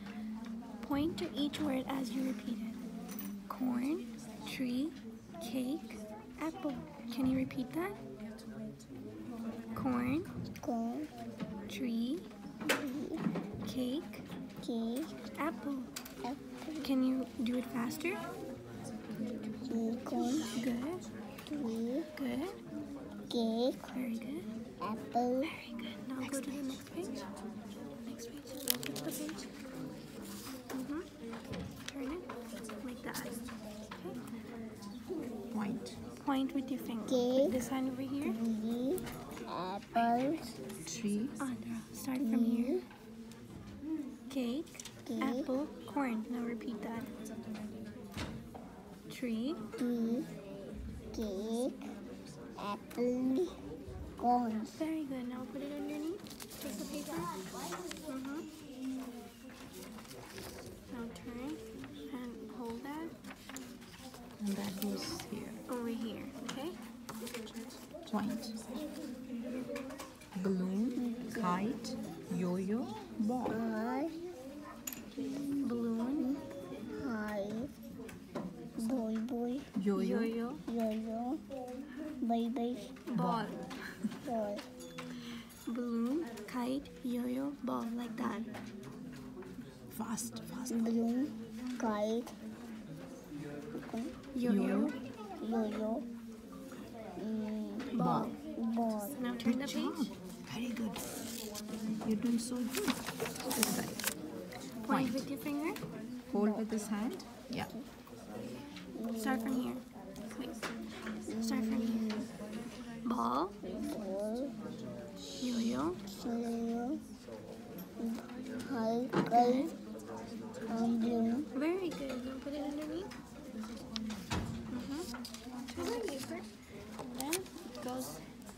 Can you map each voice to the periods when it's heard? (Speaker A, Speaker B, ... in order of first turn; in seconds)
Speaker A: 0.8-2.8, 3.5-8.0, 9.7-10.3, 11.7-12.2, 13.6-14.2, 15.4-15.9, 16.8-18.2, 20.1-21.0, 22.1-22.6, 23.9-24.5, 25.4-27.2, 28.0-29.5, 30.7-31.1, 31.9-32.3, 32.8-33.3, 33.9-34.2, 36.2-38.4, 41.4-42.8, 44.3-47.1, 49.1-49.6, 54.8-57.4, 58.1-58.4, 60.9-63.1, 65.7-66.7, 75.6-76.4, 79.9-80.6, 83.1-83.6, 85.7-88.5, 94.3-95.0, 97.9-98.3, 99.2-100.1, 104.9-105.8, 109.2-110.6, 111.3-112.2, 113.0-113.5, 115.4-116.0, 119.2-119.7, 121.5-123.1, 124.7-125.1, 125.7-126.5, 127.0-128.2
Speaker B: 10.6-11.1, 12.7-13.2, 14.6-15.1, 16.2-16.9, 19.7-20.7, 21.5-22.1, 23.3-24.1, 24.8-25.5, 37.1-37.5, 38.2-40.5, 42.2-42.8, 45.0-45.5, 49.8-50.3, 51.1-51.9, 52.6-53.5, 54.2-54.8, 71.0-71.7, 73.5-74.2, 77.0-77.7, 78.8-79.7, 80.7-81.4, 82.2-83.0, 84.2-84.6, 90.7-92.3, 93.8-94.1, 95.4-96.0, 97.2-97.9, 98.5-99.2, 106.3-106.7, 108.9-109.7, 111.3-112.3, 113.6-114.5, 116.1-117.0, 118.0-119.7, 120.7-121.5
Speaker C: 35.5-36.0, 40.9-41.4, 64.4-65.6, 68.0-68.8, 70.3-73.6, 79.8-80.3, 83.1-83.5, 89.9-90.9, 94.4-94.9, 98.0-98.3, 99.4-101.0, 102.0-104.0, 104.8-105.3, 106.3-107.7